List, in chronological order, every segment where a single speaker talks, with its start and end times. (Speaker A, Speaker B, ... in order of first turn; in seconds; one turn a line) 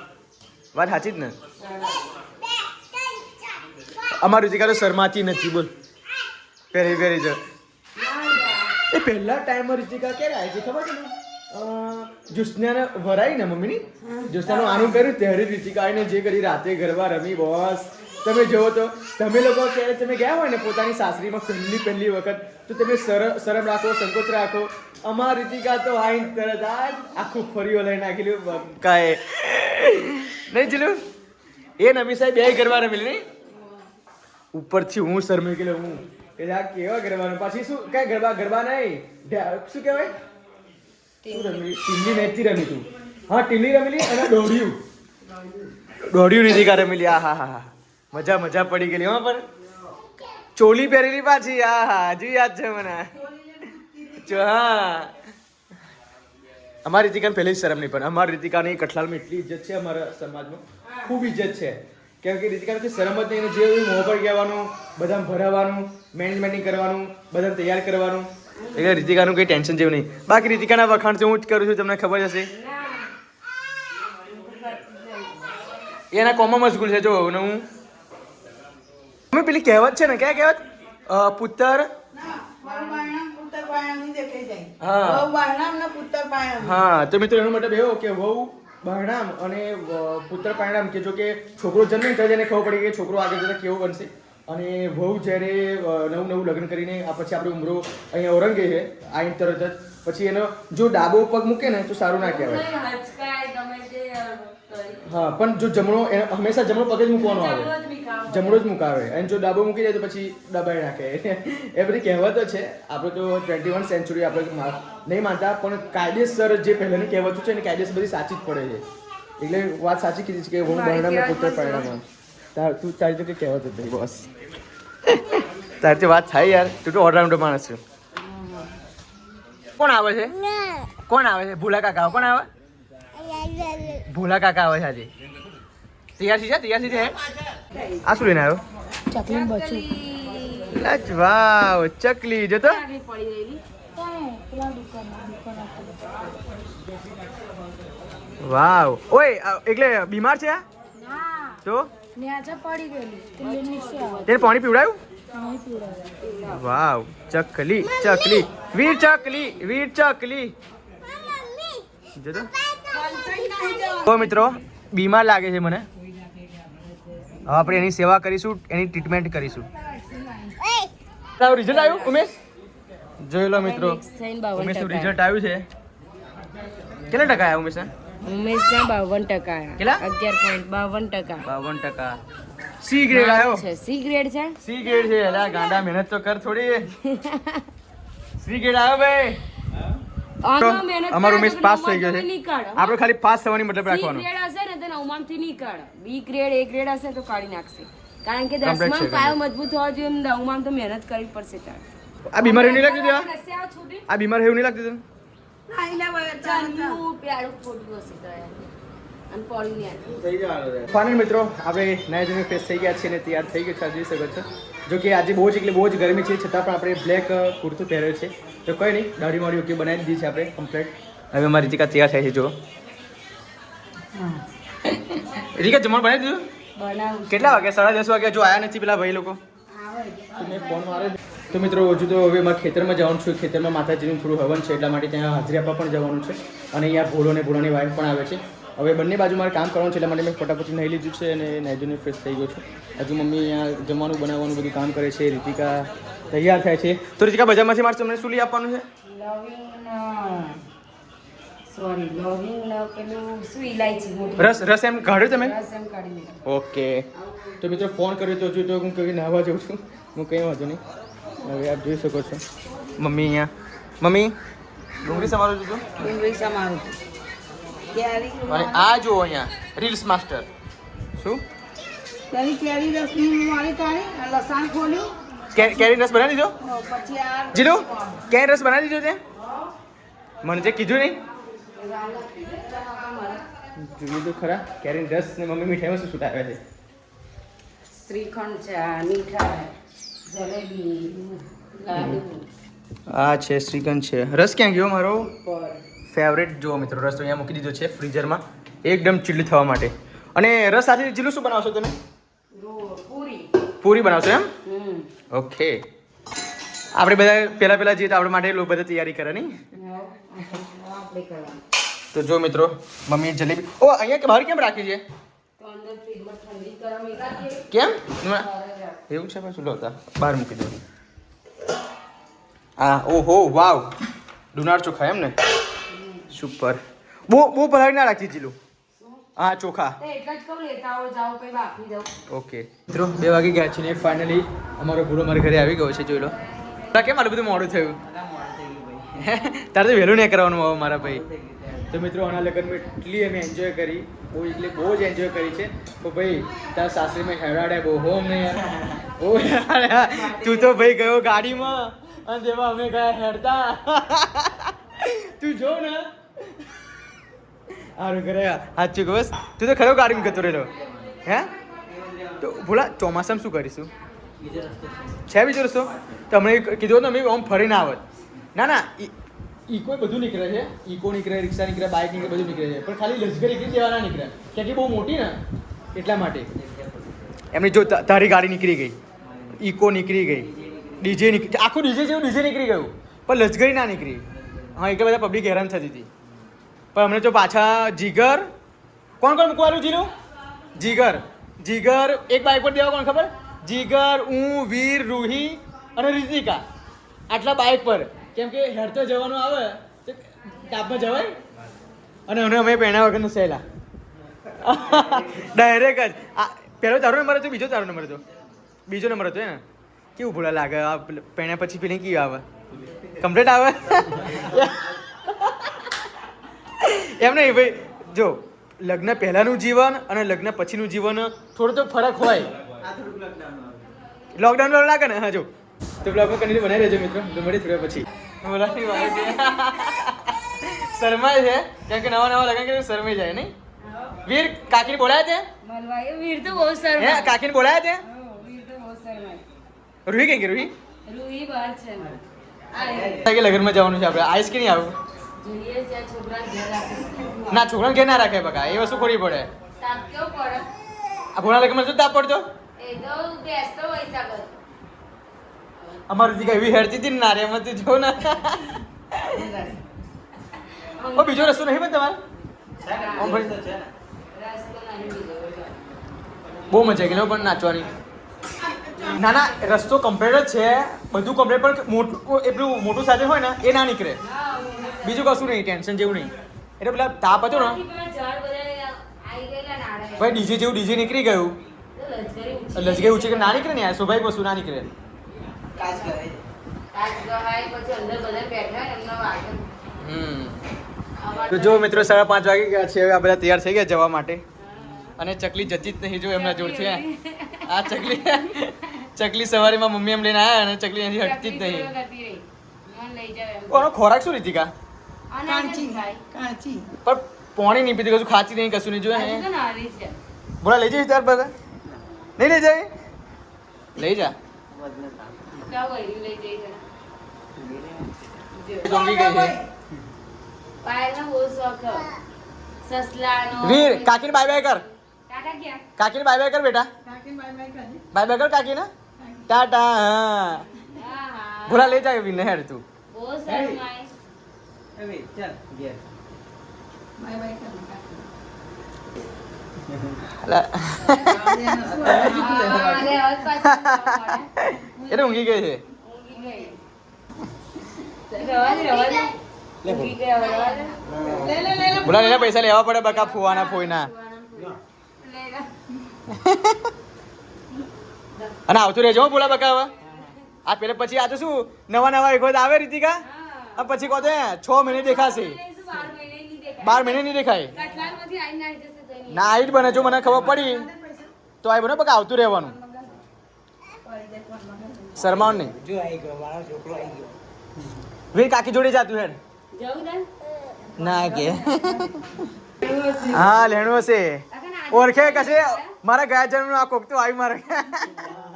Speaker A: 0.7-1.3
Speaker B: 1.6-2.1
Speaker A: 4.2-5.7
Speaker A: 6.7-7.4
Speaker B: 8.0-8.8
Speaker A: 8.9-31.0
Speaker B: 14.0-15.0
Speaker A: 31.8-33.2
Speaker A: 34.5-40.1
Speaker B: 41.2-41.7
Speaker A: 41.3-44.8
Speaker A: 46.1-49.5
Speaker A: 50.5-53.1
Speaker C: 53.1-54.6
Speaker A: 54.2-55.2
Speaker A: 56.9-72.5
Speaker B: 60.9-61.1
Speaker B: 68.6-69.2
Speaker B: 72.5-73.1
Speaker B: 74.2-75.6
Speaker A: 76.1-77.7
Speaker A: 79.3-81.9
Speaker C: 82.1-86.8
Speaker B: 82.6-83.1
Speaker A: 84.8-85.3
Speaker A: 86.6-102.7
Speaker B: 102.2-105.1
Speaker A: 105.0-107.7
Speaker B: 107.2-108.7
Speaker A: 108.3-118.8
Speaker A: 119.4-122.0
Speaker B: 120.6-121.9
Speaker A: 122.5-124.3
Speaker A: 125.1-127.8
Speaker B: 128.2-128.7
Speaker A: 129.8-130.4
Speaker A: 131.1-132.5
Speaker D: 133.3-133.9
Speaker A: 133.9-135.1
Speaker A: 136.2-137.2
Speaker A: 138.0-138.6
Speaker C: 139.1-139.9
Speaker B: 139.1-141.1
Speaker A: 140.7-142.8
Speaker B: 142.6-143.6
Speaker C: 144.0-146.0
Speaker A: 148.4-150.6
Speaker B: 151.0-151.6
Speaker A: 151.6-151.9
Speaker B: 152.2-154.6
Speaker C: 153.4-154.2
Speaker A: 154.2-155.0
Speaker C: 155.4-156.1
Speaker B: 156.1-156.7
Speaker A: 156.5-160.5
Speaker A: 162.2-162.5
Speaker B: 162.9-164.4
Speaker C: 163.1-164.1
Speaker A: 164.0-165.9
Speaker A: 167.5-169.7
Speaker A: 171.4-172.4
Speaker B: 171.5-172.3
Speaker A: 173.2-174.0
Speaker B: 173.5-175.2
Speaker A: 174.6-175.7
Speaker A: 177.1-177.9
Speaker B: 178.2-181.5
Speaker A: 179.8-180.0
Speaker A: 181.4-182.2
Speaker A: 182.8-183.7
Speaker B: 183.1-185.8
Speaker A: 184.6-186.9
Speaker B: 187.0-187.7
Speaker A: 188.4-189.4
Speaker B: 190.4-193.0
Speaker A: 190.6-194.2
Speaker B: 193.8-201.8
Speaker A: 198.6-199.4
Speaker A: 202.3-203.3
Speaker B: 202.4-204.1
Speaker A: 204.1-205.0
Speaker C: 205.7-207.0
Speaker B: 206.4-208.7
Speaker B: 209.3-210.1
Speaker A: 210.1-222.5
Speaker B: 224.2-224.4
Speaker A: 224.8-226.5
Speaker B: 226.8-227.7
Speaker A: 227.3-229.4
Speaker B: 229.7-231.1
Speaker A: 230.4-248.8
Speaker B: 249.1-250.6
Speaker B: 251.7-256.4
Speaker A: 254.4-255.6
Speaker A: 256.4-257.1
Speaker B: 257.2-257.8
Speaker A: 257.6-260.8
Speaker A: 261.4-262.4
Speaker A: 263.0-264.4
Speaker A: 265.0-266.0
Speaker B: 265.1-265.3
Speaker B: 266.0-266.9
Speaker C: 267.9-268.9
Speaker A: 268.5-270.5
Speaker A: 271.2-271.4
Speaker C: 272.3-275.1
Speaker A: 275.5-276.6
Speaker C: 276.6-278.0
Speaker A: 277.5-279.2
Speaker A: 280.4-281.2
Speaker B: 281.7-283.4
Speaker A: 283.8-286.6
Speaker B: 288.0-289.7
Speaker B: 290.3-292.5
Speaker A: 293.1-295.3
Speaker B: 295.3-295.8
Speaker A: 296.1-302.0
Speaker B: 302.5-303.5
Speaker A: 303.8-304.5
Speaker B: 304.6-305.1
Speaker A: 305.3-305.8
Speaker A: 306.9-309.6
Speaker B: 309.7-311.6
Speaker A: 312.1-315.0
Speaker B: 315.6-319.0
Speaker A: 317.7-318.5
Speaker A: 319.1-320.8
Speaker A: 322.8-323.9
Speaker A: 324.5-325.4
Speaker B: 325.9-326.3
Speaker A: 326.3-328.6
Speaker B: 329.0-329.2
Speaker A: 329.4-330.0
Speaker B: 330.0-332.1
Speaker A: 332.3-336.4
Speaker B: 336.4-337.1
Speaker A: 336.9-338.0
Speaker D: 338.2-339.1
Speaker A: 339.1-341.3
Speaker D: 341.3-341.7
Speaker A: 341.9-356.1
Speaker B: 350.0-351.0
Speaker A: 357.8-360.7
Speaker A: 361.2-361.5
Speaker A: 362.4-363.9
Speaker D: 364.6-365.0
Speaker A: 365.3-369.1
Speaker A: 369.7-375.4
Speaker A: 375.9-376.5
Speaker A: 377.5-379.0
Speaker A: 379.6-386.1
Speaker A: 386.9-388.5
Speaker A: 389.2-390.1
Speaker A: 390.8-396.6
Speaker A: 397.3-401.4
Speaker A: 402.3-403.6
Speaker A: 404.6-408.2
Speaker A: 408.9-409.6
Speaker A: 410.2-412.4
Speaker A: 413.2-415.9
Speaker A: 416.8-422.5
Speaker D: 422.8-423.8
Speaker A: 424.3-425.5
Speaker A: 426.0-433.5
Speaker B: 428.6-429.7
Speaker B: 433.8-434.2
Speaker A: 434.2-435.5
Speaker B: 435.6-437.4
Speaker A: 437.0-438.0
Speaker B: 438.0-439.4
Speaker A: 440.1-440.7
Speaker B: 441.1-442.2
Speaker B: 442.7-443.3
Speaker A: 443.2-445.0
Speaker B: 445.4-447.7
Speaker A: 447.5-449.5
Speaker B: 448.6-449.2
Speaker B: 449.8-450.7
Speaker A: 451.4-452.5
Speaker B: 452.8-454.6
Speaker B: 455.9-456.3
Speaker A: 456.1-459.5
Speaker C: 459.3-459.8
Speaker B: 460.8-461.7
Speaker A: 461.1-462.2
Speaker D: 462.8-463.9
Speaker B: 462.8-463.5
Speaker A: 463.2-463.6
Speaker B: 464.3-465.8
Speaker A: 466.7-467.9
Speaker C: 468.6-469.2
Speaker A: 469.1-474.2
Speaker B: 474.2-475.4
Speaker A: 475.0-477.8
Speaker B: 477.3-480.6
Speaker A: 480.2-481.6
Speaker B: 481.9-483.7
Speaker A: 482.8-484.9
Speaker B: 485.8-486.1
Speaker C: 485.8-486.4
Speaker B: 486.9-489.7
Speaker A: 490.0-490.6
Speaker B: 491.2-492.2
Speaker A: 491.5-494.4
Speaker B: 494.6-495.1
Speaker A: 495.2-497.0
Speaker B: 496.3-498.5
Speaker A: 497.6-501.9
Speaker B: 501.1-503.9
Speaker A: 503.7-504.7
Speaker B: 505.3-506.2
Speaker C: 505.5-506.9
Speaker A: 507.1-509.4
Speaker B: 509.1-510.2
Speaker A: 510.6-511.5
Speaker A: 512.4-512.9
Speaker A: 514.0-514.4
Speaker D: 515.0-515.5
Speaker B: 515.6-516.8
Speaker B: 518.5-519.0
Speaker A: 518.8-519.6
Speaker C: 518.9-519.7
Speaker B: 520.8-522.2
Speaker B: 522.8-525.9
Speaker A: 523.6-524.8
Speaker A: 526.0-526.9
Speaker C: 527.0-528.0
Speaker A: 528.1-528.9
Speaker C: 529.2-529.5
Speaker A: 529.5-530.7
Speaker B: 530.9-532.0
Speaker A: 531.7-532.8
Speaker B: 533.1-534.1
Speaker D: 535.0-536.0
Speaker C: 537.2-538.3
Speaker A: 540.3-541.5
Speaker C: 541.1-543.2
Speaker A: 542.1-545.8
Speaker B: 542.1-546.8
Speaker B: 548.3-551.5
Speaker C: 548.6-549.1
Speaker D: 551.1-551.7
Speaker C: 551.1-552.5
Speaker A: 552.0-554.1
Speaker B: 552.1-555.7
Speaker A: 556.3-556.9
Speaker A: 558.7-559.9
Speaker A: 560.6-563.2
Speaker B: 563.2-569.9
Speaker A: 563.8-565.6
Speaker A: 566.8-567.7
Speaker A: 569.3-570.9
Speaker C: 570.2-571.3
Speaker A: 571.6-572.8
Speaker B: 572.7-573.1
Speaker C: 574.0-575.5
Speaker A: 575.1-575.8
Speaker D: 575.5-577.4
Speaker A: 578.3-579.4
Speaker B: 579.7-580.3
Speaker A: 581.0-582.3
Speaker C: 581.1-582.2
Speaker B: 582.8-583.9
Speaker A: 583.2-588.4
Speaker B: 584.5-585.9